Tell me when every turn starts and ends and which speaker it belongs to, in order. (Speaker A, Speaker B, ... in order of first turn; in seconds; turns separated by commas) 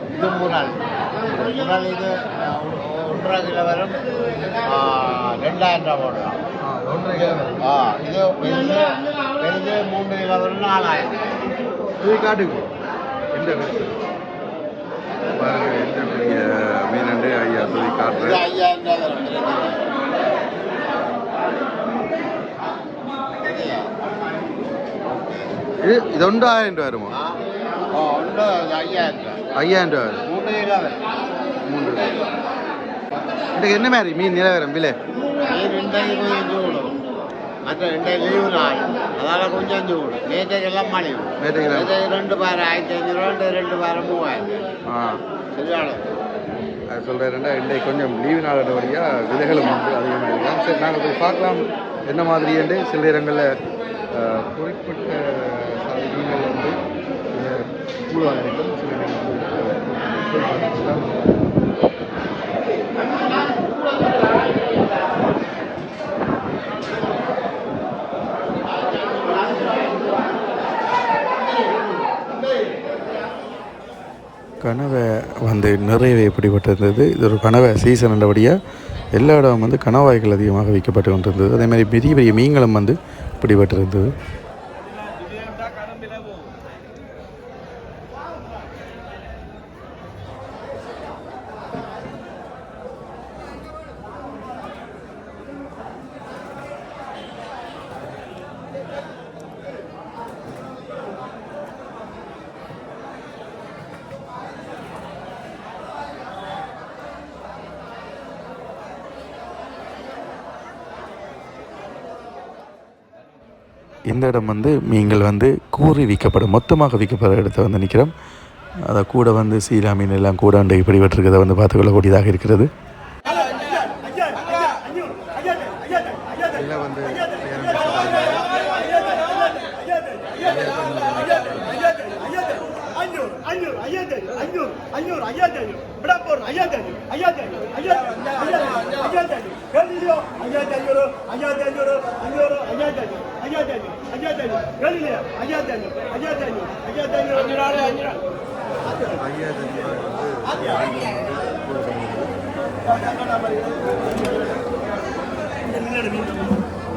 Speaker A: 0.1-4.0, Speaker A: 4.6-6.4, Speaker B: 6.6-7.6, Speaker A: 7.6-11.3, Speaker B: 12.0-12.7, Speaker B: 13.3-13.9, Speaker B: 15.4-18.4, Speaker A: 18.2-19.8, Speaker A: 23.4-23.9, Speaker B: 25.8-27.1, Speaker A: 27.1-27.4, Speaker A: 27.9-29.4, Speaker B: 29.6-30.2, Speaker A: 30.3-31.0, Speaker B: 31.7-32.1, Speaker B: 33.6-35.0, Speaker A: 35.5-37.0, Speaker A: 37.6-44.6, Speaker B: 41.4-42.0, Speaker B: 44.9-45.2, Speaker A: 45.5-46.0, Speaker B: 46.9-53.5, Speaker B: 54.1-56.8, Speaker B: 57.3-61.2, Speaker C: 74.6-78.6, Speaker C: 79.1-84.1, Speaker C: 114.1-118.1, Speaker C: 118.9-122.7, Speaker B: 126.5-128.5, Speaker B: 130.4-131.8, Speaker D: 133.1-135.2, Speaker D: 135.7-138.9, Speaker D: 139.5-142.7, Speaker D: 143.2-148.1, Speaker B: 148.9-152.3, Speaker D: 155.7-156.5